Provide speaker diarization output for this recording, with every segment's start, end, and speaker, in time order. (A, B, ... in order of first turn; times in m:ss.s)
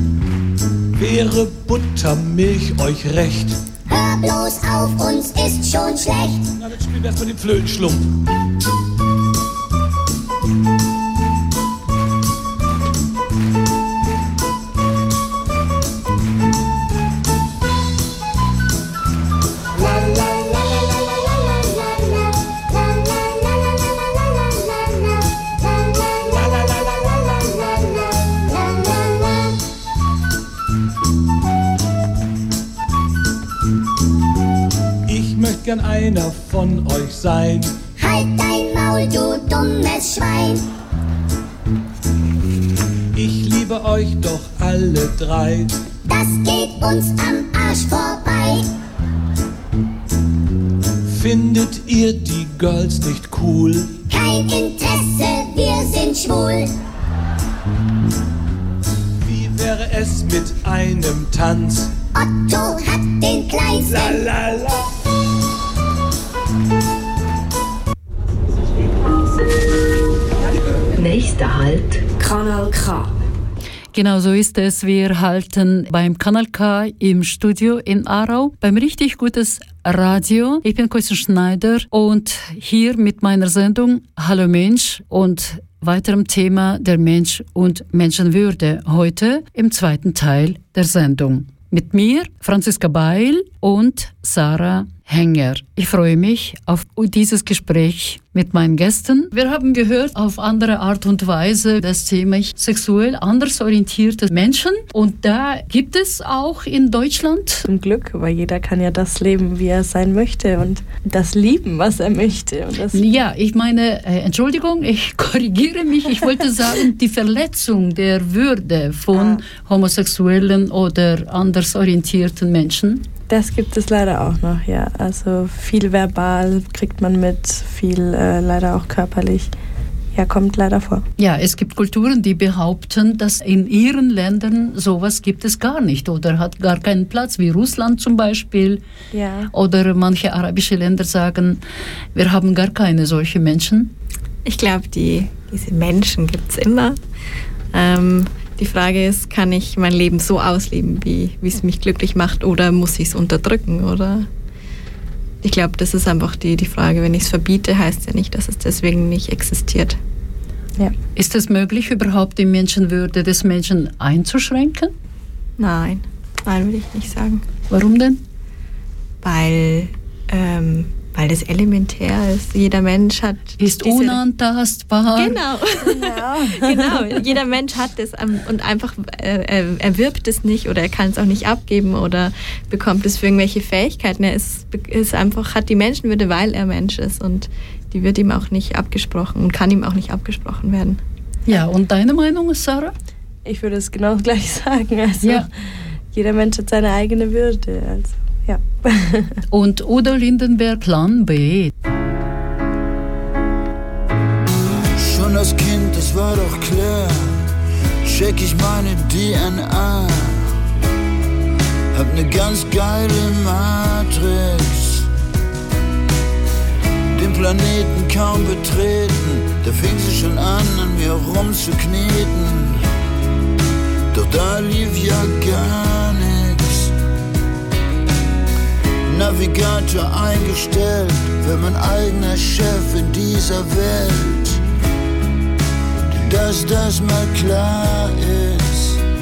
0:01.0-0:03.6 A
0:03.9-0:06.4 B
0:06.6-0:08.1 A
0:19.8-0:21.0 A
0:22.7-0:23.8 B
0:24.4-0:25.0 B
0:26.3-0:27.9 A
0:28.5-0:29.5 B
0:35.1-0:37.7 A
0:38.0-0:40.6 B
0:43.2-0:45.7 A
0:46.1-0:48.6 B
0:51.1-0:54.0 A
0:54.1-0:56.7 B
0:59.2-1:01.9 A
1:02.1-1:04.2 B
1:03.8-1:04.8 A
1:11.0-1:13.1 C
1:13.9-1:47.7 D
1:47.7-1:53.0 E
1:52.9-2:03.0 D
1:59.1-1:59.4 E
2:03.3-2:09.5 E
2:10.1-2:11.0 E
2:11.2-2:18.8 D
2:19.1-2:19.5 E
2:19.5-2:21.6 D
2:22.2-2:23.9 D
2:24.4-2:27.0 F
2:27.7-2:34.3 F
2:35.4-2:40.0 F
2:41.2-2:44.9 D
2:45.6-2:47.4 F
2:47.7-2:48.2 D
2:49.2-2:54.2 F
2:53.6-2:55.4 D
2:55.2-3:11.0 F
2:55.9-2:57.2 E
3:11.5-3:12.9 D
3:13.4-3:15.5 E
3:15.2-3:15.5 D
3:16.1-3:19.4 E
3:19.5-3:21.7 D
3:24.9-3:27.5 G
3:28.0-3:30.6 G
3:31.9-3:35.1 G
3:37.1-3:42.9 G
3:44.1-3:46.9 G
3:49.1-3:54.6 G
3:56.1-3:59.0 G